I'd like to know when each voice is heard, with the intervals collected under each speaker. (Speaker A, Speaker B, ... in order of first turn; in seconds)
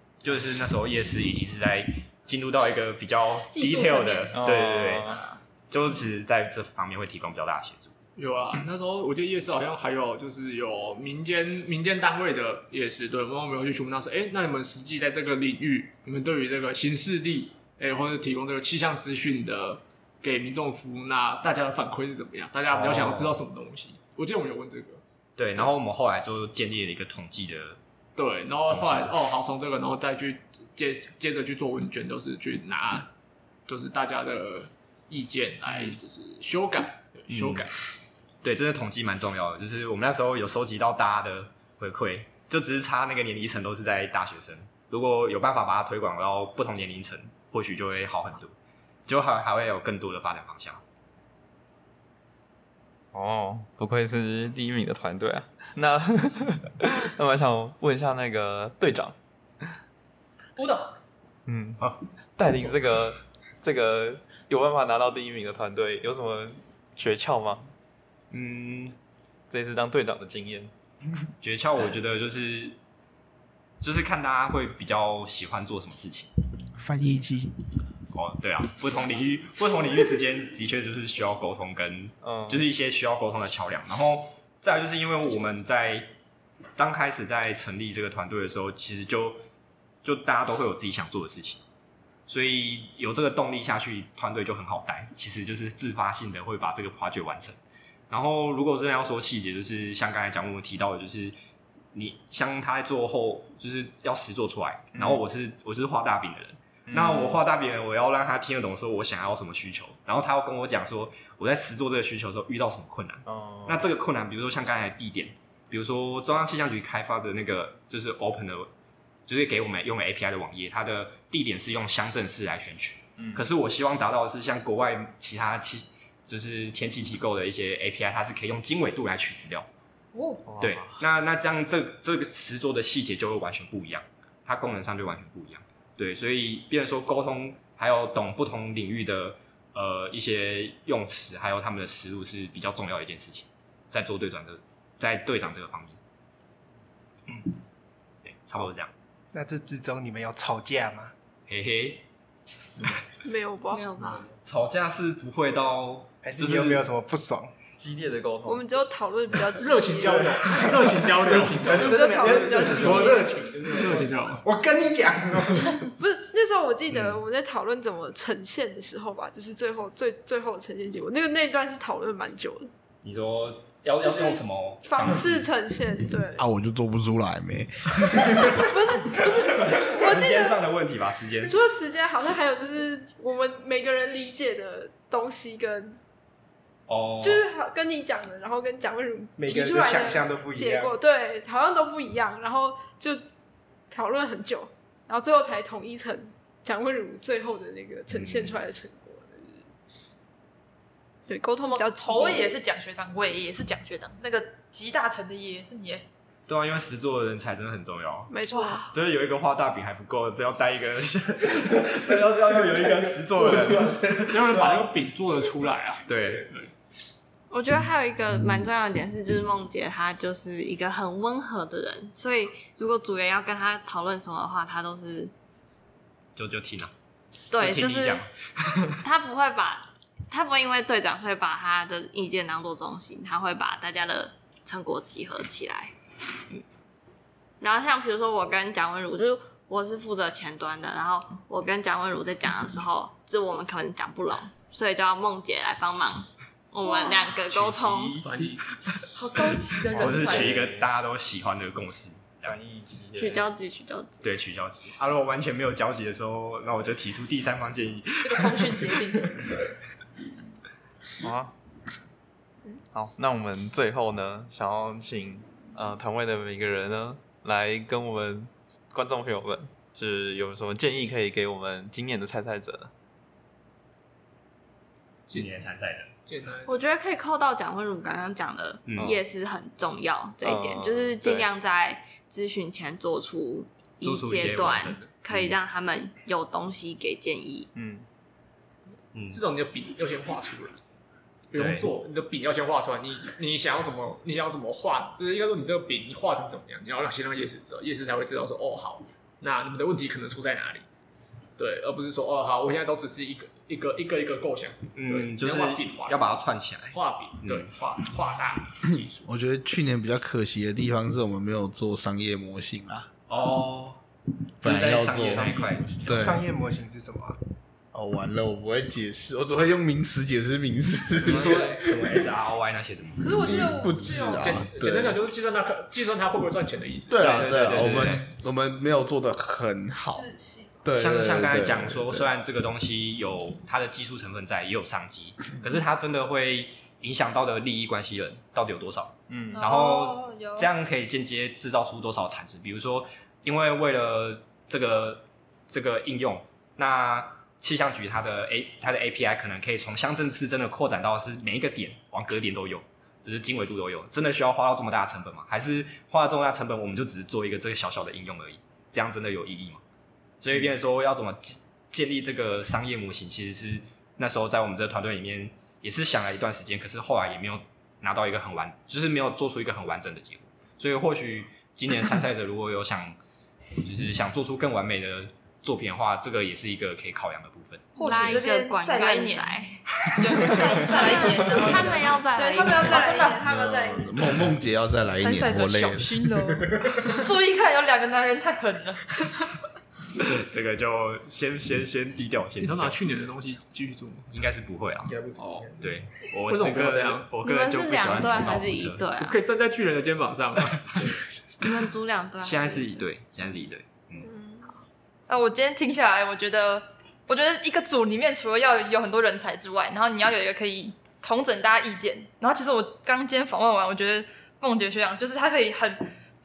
Speaker A: 0.2-7.9, 22.7-23.4, 25.4-27.8, 28.7-29.2, 35.7-36.0, 37.3-37.7, 38.4-48.5, 49.1-50.8, 68.3-68.9, 71.4-72.8, 73.8-76.3, 78.1-86.1, 86.8-89.4, 90.0-91.6, 92.3-97.6, 98.1-101.3, 101.9-118.7, 119.3-129.7, 130.6-146.0, 147.3-147.6, 148.2-148.9, 151.5-152.0, 154.0-156.8, 166.9-167.2, 173.0-175.4, 179.6-181.6, 186.9-187.4, 198.1-198.6, 206.5-208.3, 208.9-214.9, 216.1-216.5, 226.3-226.9, 227.6-228.9, 247.4-248.3, 250.0-252.6, 254.2-259.3, 275.3-276.1, 278.9-279.2, 284.0-285.6, 289.1-289.4, 291.5-291.9, 304.9-307.7, 313.3-314.0, 314.6-316.1, 321.2-323.5, 327.2-328.2, 330.9-359.8, 360.4-373.1, 373.8-378.4, 380.1-380.6, 390.1-393.0, 394.3-395.2, 395.8-399.0, 402.4-404.3
Speaker B: 3.5-4.5, 60.5-61.0, 130.1-130.4, 201.6-206.0, 208.5-208.8, 246.8-247.1, 249.1-250.5, 258.2-259.3, 339.5-340.7, 377.9-382.1, 382.7-383.4, 385.2-389.2, 405.3-416.1
Speaker C: 4.3-5.2, 53.1-59.1, 61.5-61.8, 62.4-67.7, 69.5-70.7, 82.2-82.6, 104.9-105.2, 106.9-107.4, 113.2-113.8, 123.2-123.5, 130.4-131.0, 157.8-158.7, 249.9-250.9, 252.4-253.4, 261.2-261.5, 262.9-272.9, 280.4-281.4, 287.7-288.0, 339.3-339.6
Speaker D: 8.2-25.0, 28.2-33.1, 33.7-37.8, 159.6-164.4, 214.3-216.7, 248.2-248.6, 276.3-276.7, 289.3-290.8, 291.5-300.9, 301.6-306.3, 306.9-309.3, 324.3-328.0, 392.6-394.3, 395.4-395.7, 396.4-397.3, 399.2-401.1
Speaker E: 76.8-77.5, 176.4-178.6, 213.4-214.3, 309.2-313.1, 314.6-316.5, 317.9-322.2, 323.4-325.2, 327.1-330.3, 330.8-332.3, 383.4-387.2, 395.1-395.9
Speaker F: 149.3-151.1, 156.2-157.5, 160.4-165.9, 189.4-191.0, 315.1-317.4
Speaker G: 153.2-153.9, 158.4-160.6, 161.6-163.3, 166.0-172.7, 174.0-176.4, 178.3-180.6, 181.4-186.0, 187.2-193.2, 193.9-199.6, 201.3-202.5, 208.3-208.9, 323.2-324.7, 330.1-330.8, 382.3-384.5, 404.2-404.7
Speaker H: 153.7-154.2, 217.5-225.3, 227.5-228.2, 229.0-235.9, 237.6-248.2, 253.1-254.2, 276.6-287.7, 378.0-379.8, 380.6-383.3, 397.4-399.4, 401.6-403.0